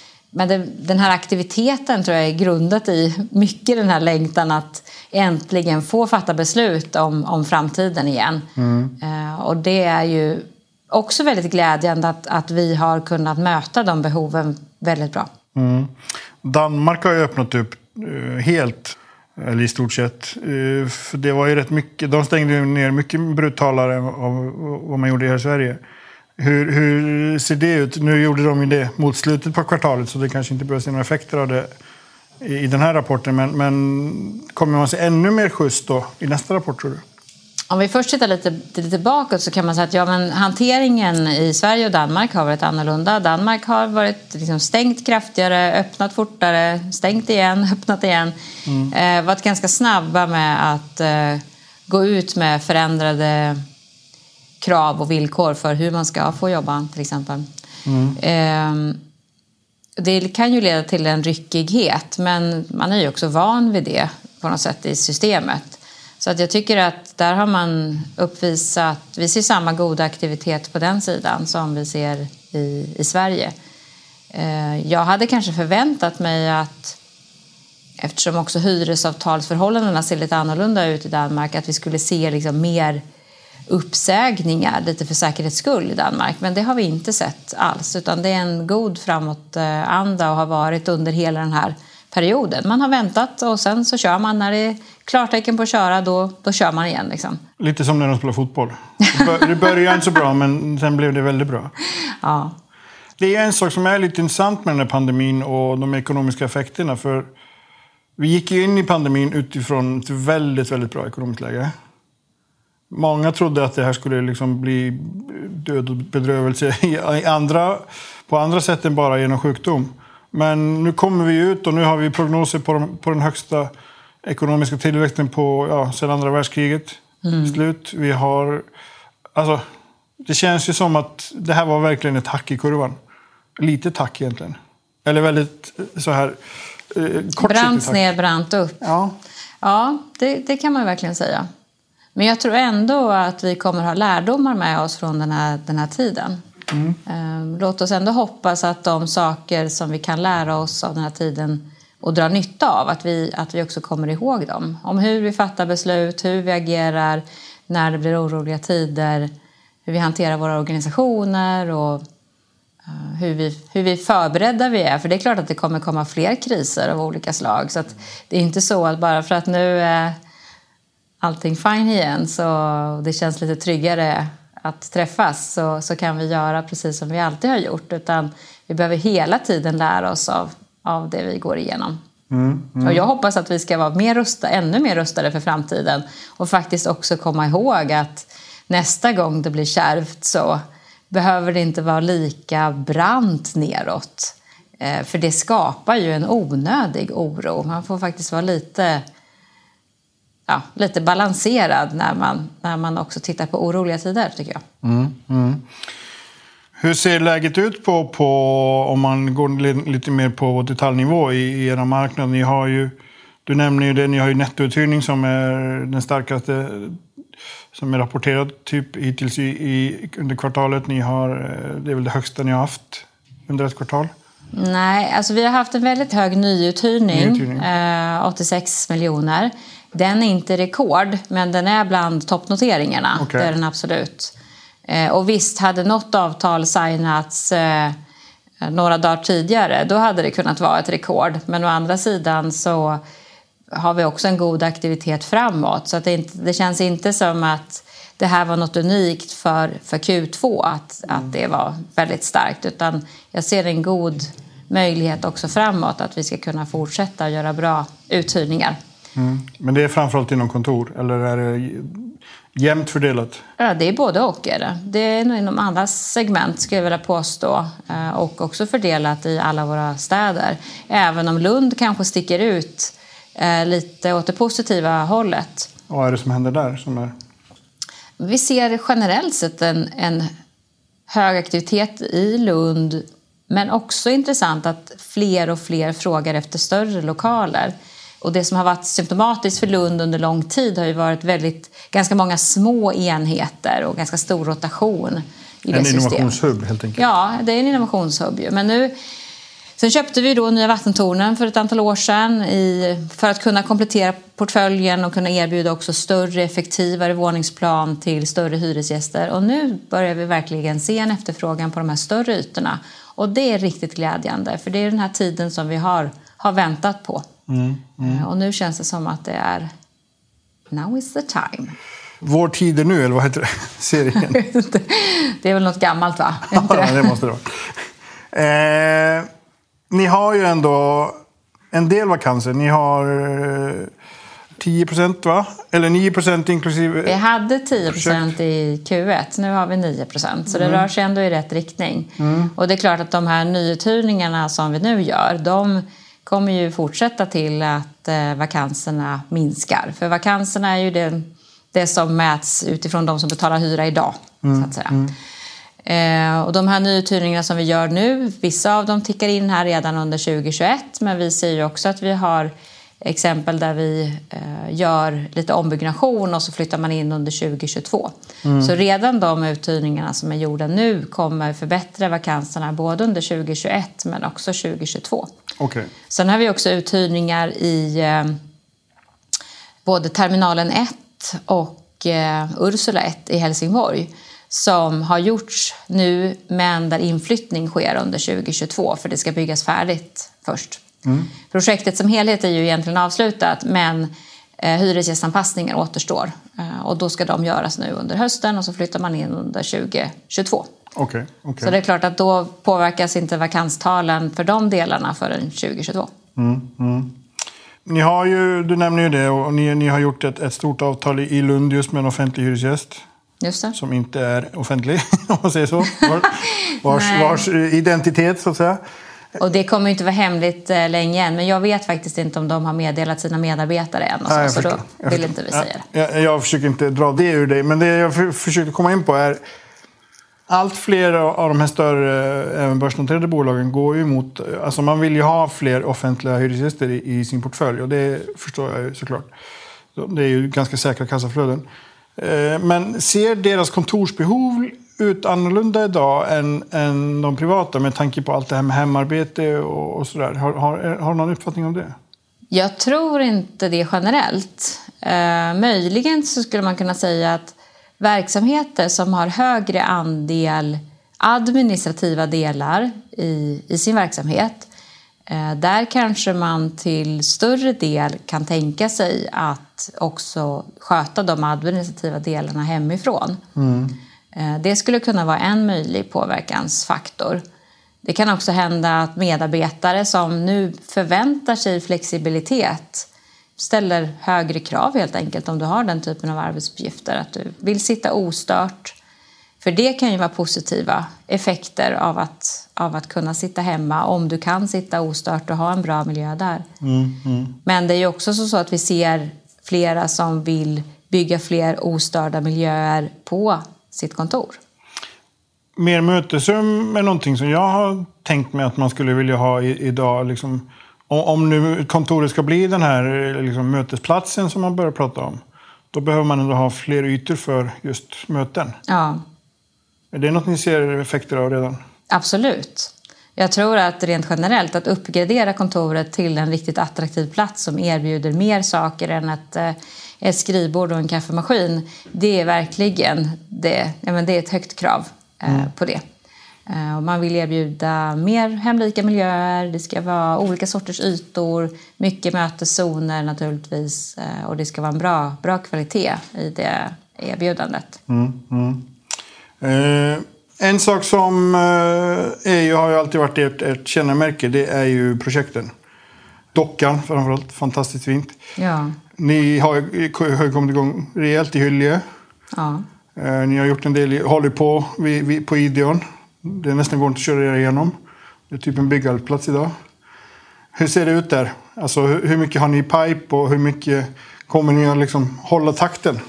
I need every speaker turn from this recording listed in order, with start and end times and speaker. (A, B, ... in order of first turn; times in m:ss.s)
0:00.3-0:08.5 A
0:08.6-0:08.9 B
0:09.0-0:15.3 A
0:15.5-0:25.8 B
0:26.4-0:31.7 B
0:32.4-0:37.0 B
0:37.7-0:48.3 A
0:48.7-0:48.9 B
0:48.9-0:53.6 A
0:54.6-0:57.5 A
0:57.8-0:58.2 B
0:58.2-0:59.0 A
1:00.0-1:13.5 A
1:14.3-1:17.0 A
1:18.0-1:23.0 A
1:23.7-1:37.4 A
1:37.6-1:41.7 B
1:39.0-1:39.7 A
1:42.2-1:42.5 A
1:43.2-1:47.3 B
1:48.2-1:51.7 B
1:52.9-2:03.7 B
2:04.2-2:08.6 B
2:07.2-2:07.6 A
2:09.3-2:09.6 B
2:10.2-2:13.0 B
2:13.6-2:16.4 B
2:16.9-2:18.0 B
2:17.4-2:18.8 A
2:18.8-2:19.1 B
2:19.6-2:21.5 A
2:22.1-2:26.4 A
2:26.7-2:27.0 B
2:27.0-2:39.3 A
2:39.8-2:42.0 A
2:42.9-2:50.2 A
2:51.2-3:02.0 A
3:02.3-3:03.0 B
3:02.8-3:19.0 A
3:20.5-3:24.6 A
3:24.8-3:25.7 B
3:26.8-3:37.0 B
3:37.7-3:44.1 B
3:44.5-3:54.3 A
3:47.1-3:47.6 B
3:53.2-3:53.5 B
3:54.8-3:58.0 A
3:58.6-4:03.0 A
4:03.7-4:18.8 A
4:19.2-4:23.4 B
4:23.6-4:35.7 A
4:35.9-4:37.1 B
4:38.2-4:40.3 A
4:41.1-4:56.4 A
4:55.7-4:57.0 B
4:57.0-4:58.9 A
4:59.8-5:17.2 A
5:17.5-5:18.2 B
5:18.0-5:19.7 A
5:20.7-5:21.8 A
5:22.2-5:24.4 B
5:24.3-5:27.2 A
5:26.5-5:29.3 B
5:29.9-5:31.2 B
5:31.7-5:33.9 B
5:34.6-5:37.2 B
5:37.0-5:55.0 A
5:37.9-5:38.3 B
5:40.5-5:40.9 B
5:42.2-5:42.5 B
5:54.4-5:55.1 B
5:55.8-6:15.3 A
6:08.4-6:08.7 B
6:15.6-6:15.9 B
6:16.1-6:18.4 A
6:19.8-6:30.8 A
6:31.0-6:31.3 B
6:31.5-6:40.7 A
6:41.0-6:41.8 B
6:41.6-6:46.1 A
6:46.4-6:47.1 B
6:47.8-6:53.0 B
6:53.4-6:53.7 A
6:53.7-6:58.8 B
6:56.6-6:57.4 A
6:59.4-7:05.8 A
7:04.3-7:09.4 B
7:10.5-7:19.3 B
7:19.9-7:21.6 B
7:22.2-7:32.0 B
7:32.5-7:44.7 A
7:45.3-7:53.4 A
7:53.6-7:53.9 B
7:54.3-7:57.4 A
7:58.0-8:08.9 A
8:09.6-8:16.6 A
8:16.8-8:17.6 B
8:17.6-8:24.6 A
8:25.8-8:35.4 B
8:35.9-8:38.8 B
8:38.9-8:39.2 A
8:40.1-8:41.8 B
8:42.1-8:56.0 A
8:56.7-9:08.0 A
9:08.1-9:08.9 B
9:09.6-9:15.7 B
9:16.5-9:18.4 B
9:18.6-9:19.0 A
9:19.2-9:22.0 B
9:22.5-9:22.8 A
9:23.2-9:27.9 B
9:28.5-9:29.7 B
9:30.7-9:36.2 B